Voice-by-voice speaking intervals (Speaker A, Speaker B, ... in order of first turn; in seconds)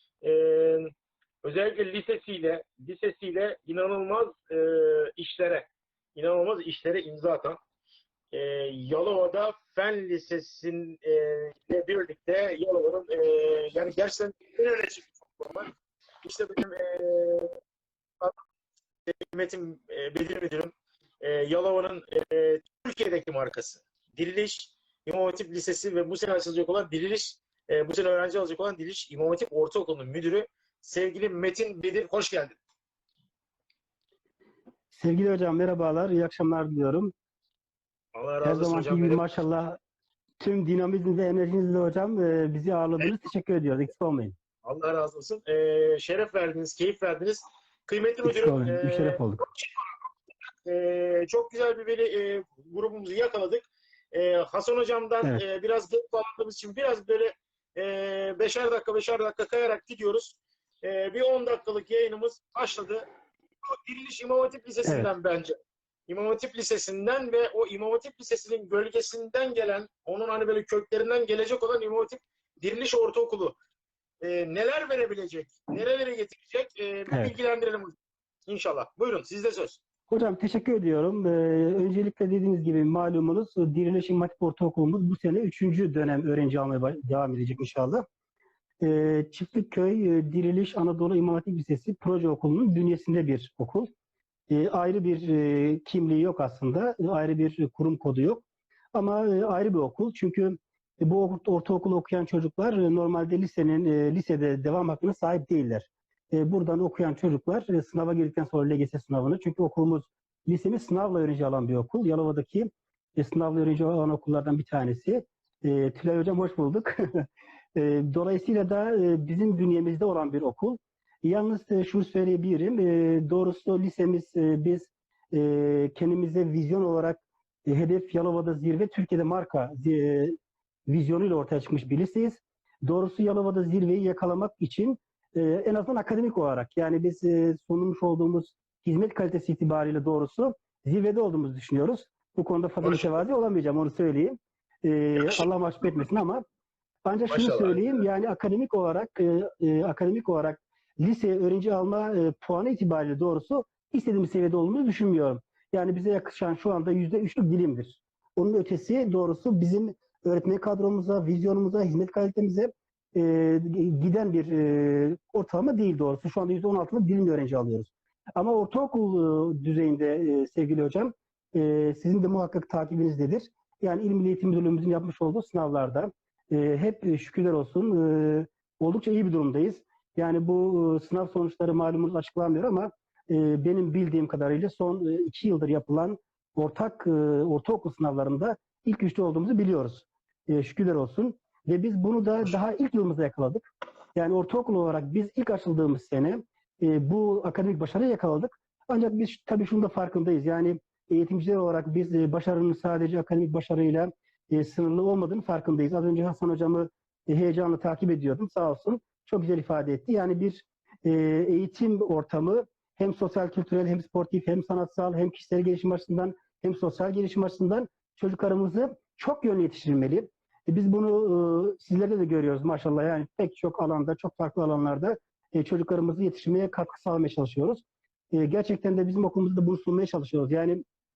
Speaker A: 0.2-7.6, 8.3-15.7, 16.2-17.5, 19.1-32.6, 38.1-39.2, 44.6-49.9, 50.6-63.0, 63.7-65.6, 66.1-73.6, 74.2-77.9, 78.5-79.8, 142.8-143.2, 145.2-146.1, 147.3-147.8
Speaker B: 34.9-37.1, 38.4-39.8, 40.4-44.4, 48.2-49.4, 64.8-65.1, 80.1-88.0, 88.8-93.9, 94.5-117.2, 117.8-130.4, 130.9-146.4, 147.1-230.8